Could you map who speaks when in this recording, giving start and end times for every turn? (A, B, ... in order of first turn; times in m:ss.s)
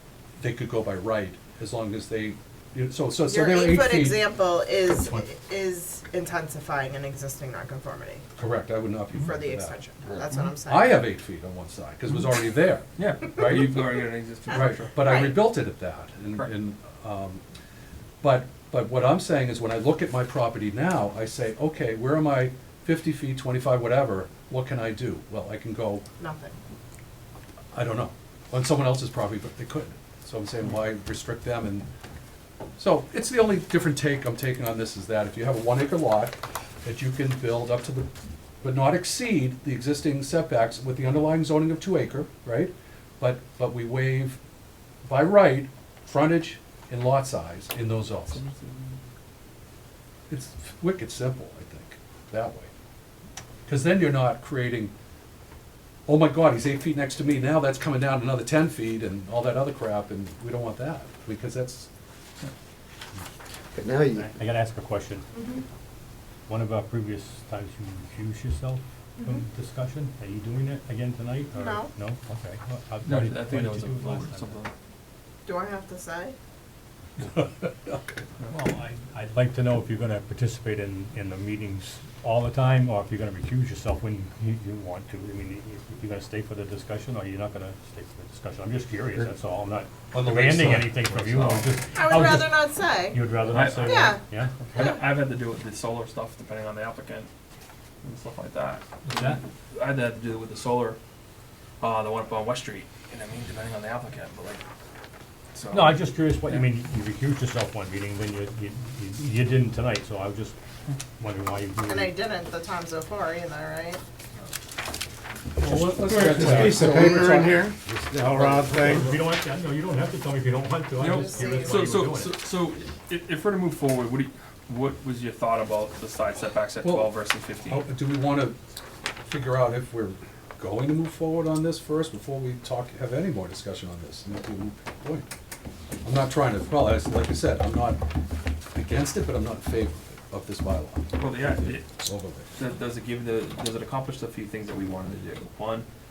0:00.4-0:04.3 A
0:03.3-0:08.2 B
0:05.0-0:05.3 A
0:08.4-0:09.8 A
0:09.2-0:11.0 B
0:10.6-0:13.8 A
0:13.0-0:15.0 C
0:14.5-0:15.5 B
0:14.5-0:17.4 A
0:18.2-0:26.0 A
0:26.2-0:26.5 B
0:27.7-0:31.9 A
0:32.8-0:38.1 A
0:38.6-0:44.4 A
0:45.0-0:48.4 A
0:48.3-0:49.0 C
0:50.3-0:52.7 A
0:53.6-0:54.9 A
0:56.1-1:01.9 A
1:03.8-1:04.3 D
1:04.1-1:05.3 E
1:05.3-1:05.6 B
1:06.5-1:14.6 E
1:11.5-1:11.9 B
1:13.0-1:14.7 C
1:15.4-1:16.4 B
1:17.3-1:18.2 A
1:18.5-1:34.7 E
1:30.1-1:31.7 A
1:31.9-1:33.2 B
1:33.4-1:37.3 C
1:33.8-1:34.2 B
1:38.0-1:41.0 C
1:39.0-1:39.4 E
1:41.8-1:44.6 C
1:45.5-1:46.7 C
1:45.7-1:50.6 E
1:51.2-1:52.1 E
1:51.8-1:54.0 B
1:55.6-1:57.7 A
1:55.6-1:56.8 E
1:56.0-1:59.2 D
1:58.5-2:02.3 E
2:01.0-2:07.8 C
2:01.0-2:01.9 B
2:06.8-2:07.1 A
2:07.7-2:08.6 A
2:09.2-2:15.3 A
2:16.0-2:18.0 A
2:18.7-2:22.5 A
2:21.2-2:21.9 C
2:22.5-2:25.9 C